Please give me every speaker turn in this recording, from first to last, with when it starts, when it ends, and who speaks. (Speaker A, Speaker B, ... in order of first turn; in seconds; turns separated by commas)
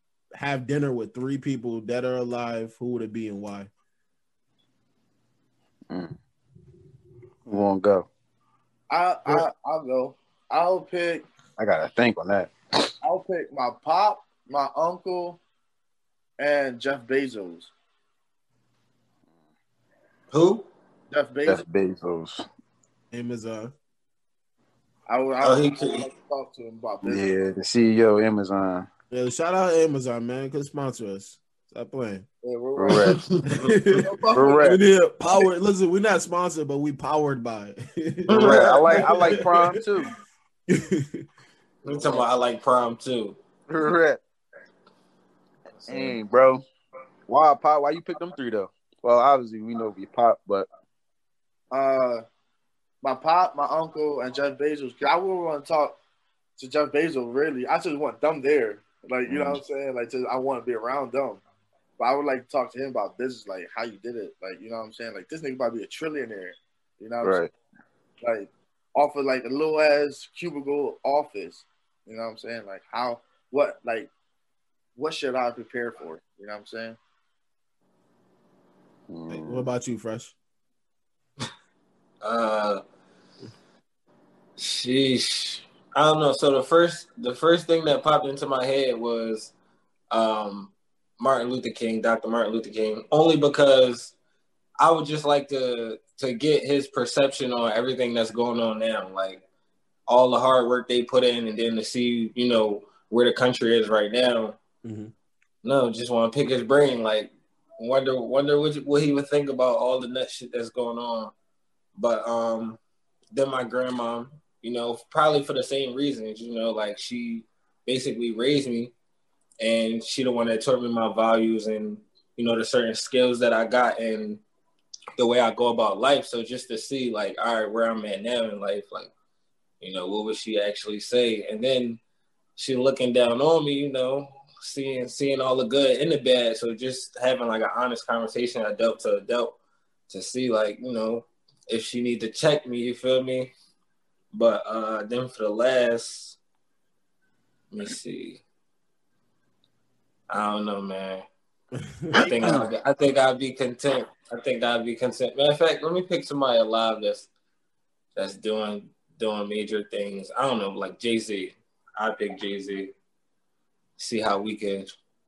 Speaker A: 0.3-3.7, Speaker B: 5.9-6.2, Speaker B: 7.5-8.1, Speaker C: 8.9-11.2, Speaker B: 11.6-12.9, Speaker C: 13.0-15.4, Speaker C: 16.4-17.7, Speaker D: 20.3-20.7, Speaker C: 21.1-21.6, Speaker B: 21.5-22.4, Speaker A: 23.1-23.7, Speaker C: 25.1-27.3, Speaker D: 25.4-26.1, Speaker B: 27.0-28.9, Speaker A: 29.1-32.3, Speaker C: 32.4-33.2, Speaker B: 32.8-33.2, Speaker D: 33.0-33.9, Speaker A: 33.5-39.8, Speaker C: 33.9-34.8, Speaker B: 34.3-34.8, Speaker D: 38.3-39.4, Speaker B: 38.4-40.1, Speaker A: 40.7-41.3, Speaker D: 41.8-43.4, Speaker B: 43.7-44.2, Speaker B: 45.9-46.6, Speaker B: 47.3-50.7, Speaker C: 51.7-52.2, Speaker C: 53.0-56.0, Speaker C: 56.6-61.4, Speaker B: 59.3-59.6, Speaker C: 62.0-67.4, Speaker B: 67.2-67.5, Speaker C: 68.2-74.1, Speaker C: 75.0-77.0, Speaker B: 79.1-79.7, Speaker A: 79.3-80.3, Speaker D: 82.2-82.8, Speaker D: 84.6-89.5, Speaker D: 90.1-94.2, Speaker D: 94.8-99.4, Speaker D: 100.1-104.6, Speaker A: 104.8-105.1, Speaker D: 105.6-111.3, Speaker D: 112.0-112.8, Speaker D: 113.3-118.9, Speaker D: 119.6-124.4, Speaker D: 125.2-129.1, Speaker D: 129.8-132.0, Speaker D: 132.6-139.6, Speaker D: 140.1-143.5, Speaker D: 144.3-146.4, Speaker D: 147.7-148.4, Speaker D: 150.3-151.2, Speaker A: 151.9-152.5, Speaker D: 152.2-157.3, Speaker B: 152.3-152.7, Speaker D: 158.2-162.9, Speaker D: 164.0-164.9